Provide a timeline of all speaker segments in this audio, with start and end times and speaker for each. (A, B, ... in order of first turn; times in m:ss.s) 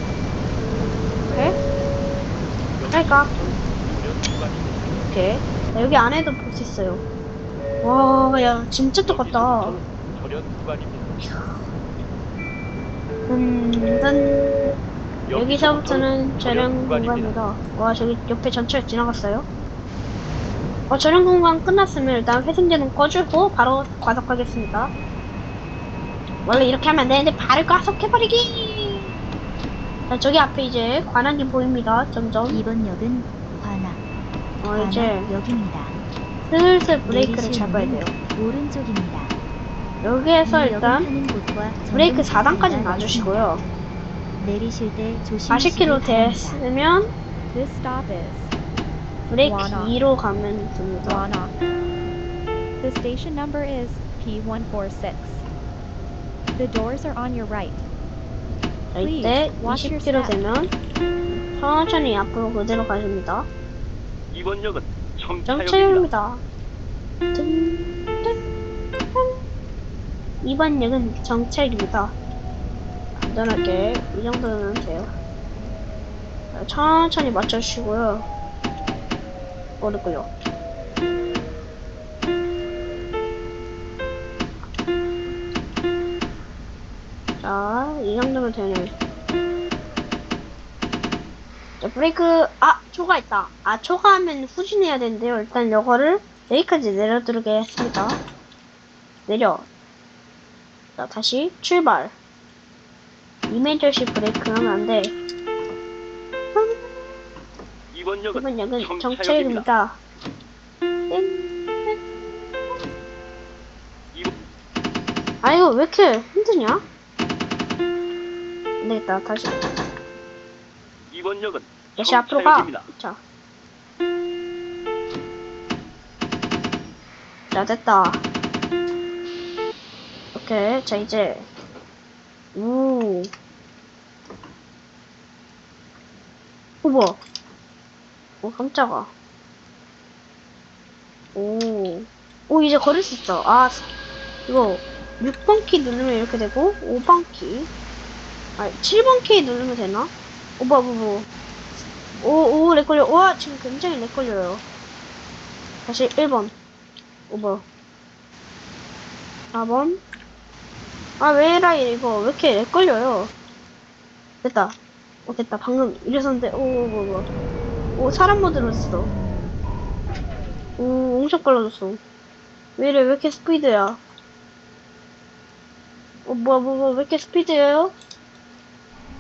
0:01.2-0:01.6 A
0:02.8-0:05.1 B
0:02.9-0:03.3 A
0:05.0-0:07.0 A
0:07.8-0:09.8 A
0:09.0-0:11.2 B
0:13.3-0:14.7 A
0:15.2-0:17.4 B
0:15.3-0:19.5 A
0:20.9-0:24.9 A
0:26.4-0:29.1 A
0:30.1-0:32.6 A
0:32.5-0:34.0 C
0:34.6-0:35.3 A
0:34.7-0:36.0 C
0:36.4-0:38.2 A
0:37.0-0:39.4 C
0:40.0-0:41.1 A
0:40.4-0:43.6 C
0:41.9-0:43.6 A
0:44.4-0:46.6 C
0:45.5-0:47.1 A
0:47.5-0:48.5 D
0:49.3-0:51.3 A
0:49.4-0:50.0 D
0:51.0-0:51.6 D
0:52.8-0:55.4 D
0:56.5-0:57.8 D
0:58.9-1:00.7 A
0:59.0-1:00.3 D
1:01.5-1:03.5 A
1:04.3-1:06.1 B
1:05.5-1:06.4 A
1:07.3-1:08.3 A
1:10.4-1:12.2 A
1:13.1-1:15.1 A
1:16.5-1:18.3 A
1:19.8-1:20.3 A
1:27.4-1:28.9 A
1:31.8-1:38.2 A
1:39.3-1:39.6 A
1:40.9-1:42.1 A
1:43.5-1:45.2 A
1:46.5-1:46.8 A
1:47.9-1:49.7 B
1:48.3-1:50.0 A
1:51.1-1:52.0 A
1:55.4-1:56.8 A
1:58.8-1:59.6 A
2:01.1-2:02.9 B
2:02.0-2:03.2 A
2:07.5-2:08.2 A
2:10.3-2:11.5 A
2:12.5-2:13.3 A
2:16.8-2:17.2 A
2:18.4-2:19.1 A
2:21.3-2:23.9 A
2:24.5-2:27.7 A
2:28.6-2:31.3 A
2:32.2-2:34.6 A
2:35.8-2:36.5 A
2:37.3-2:37.6 A
2:39.5-2:40.0 A
2:41.2-2:43.3 A
2:44.4-2:44.7 A
2:45.2-2:47.3 A
2:48.0-2:49.1 A
2:50.8-2:52.0 A
2:52.8-2:54.0 A
2:56.2-2:57.9 A